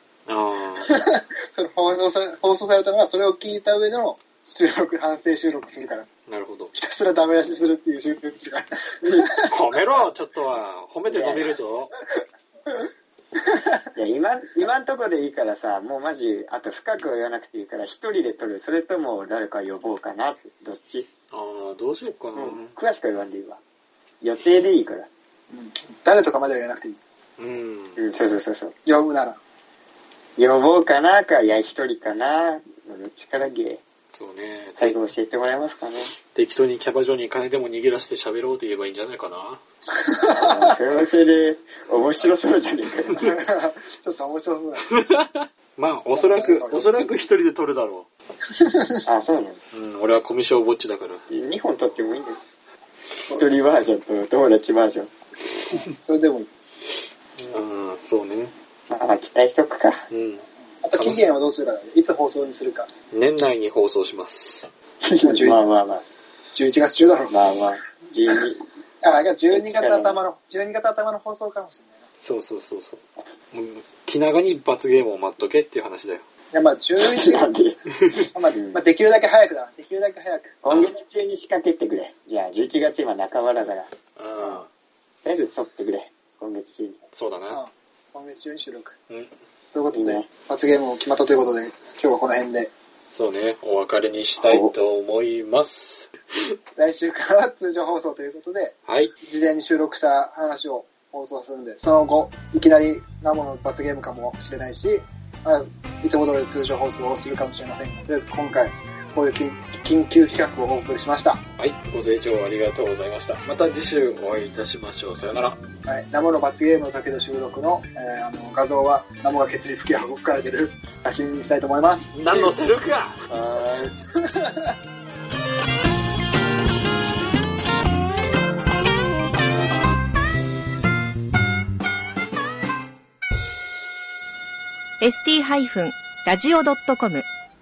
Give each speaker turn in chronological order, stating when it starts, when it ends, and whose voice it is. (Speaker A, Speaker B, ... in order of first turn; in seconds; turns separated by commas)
Speaker A: 0.3-0.9, Speaker B: 0.8-6.1, Speaker A: 6.3-6.7, Speaker B: 6.7-9.5, Speaker C: 9.0-9.3, Speaker A: 9.5-11.9, Speaker C: 11.1-11.5, Speaker C: 13.9-21.1, Speaker A: 21.3-22.7, Speaker C: 22.3-23.6, Speaker C: 24.2-25.1, Speaker B: 25.5-27.0, Speaker A: 27.4-28.0, Speaker C: 27.9-28.7, Speaker B: 28.8-29.4, Speaker C: 30.4-33.8, Speaker A: 34.1-35.0, Speaker C: 34.8-36.1, Speaker A: 36.3-39.6, Speaker B: 40.0-40.8, Speaker C: 40.2-43.4, Speaker B: 43.2-44.9, Speaker A: 44.9-48.1, Speaker B: 46.1-47.2, Speaker B: 48.5-49.0, Speaker C: 49.0-49.6, Speaker A: 49.7-51.2, Speaker C: 51.3-52.4, Speaker C: 53.3-55.1, Speaker B: 55.7-56.5, Speaker A: 57.4-58.5, Speaker C: 58.9-60.0, Speaker A: 60.1-61.2, Speaker B: 60.8-62.9, Speaker A: 63.1-64.7, Speaker C: 65.0-66.0, Speaker B: 65.2-65.6, Speaker B: 66.5-67.3, Speaker C: 67.3-68.6, Speaker B: 69.0-72.0, Speaker C: 69.5-70.2, Speaker A: 72.2-76.2, Speaker B: 76.5-77.5, Speaker C: 77.0-77.8, Speaker B: 78.3-80.5, Speaker C: 78.5-78.8, Speaker C: 80.6-84.6, Speaker A: 84.2-84.7, Speaker C: 85.2-87.0, Speaker A: 87.1-87.6, Speaker B: 87.5-88.9, Speaker B: 89.7-92.7, Speaker C: 89.9-90.3, Speaker A: 93.1-96.1, Speaker C: 94.4-94.7, Speaker B: 96.8-111.4, Speaker A: 98.8-99.1, Speaker A: 111.6-115.6, Speaker B: 115.8-122.5, Speaker A: 122.1-123.2, Speaker C: 123.3-123.9, Speaker B: 124.2-124.7, Speaker D: 135.0-137.2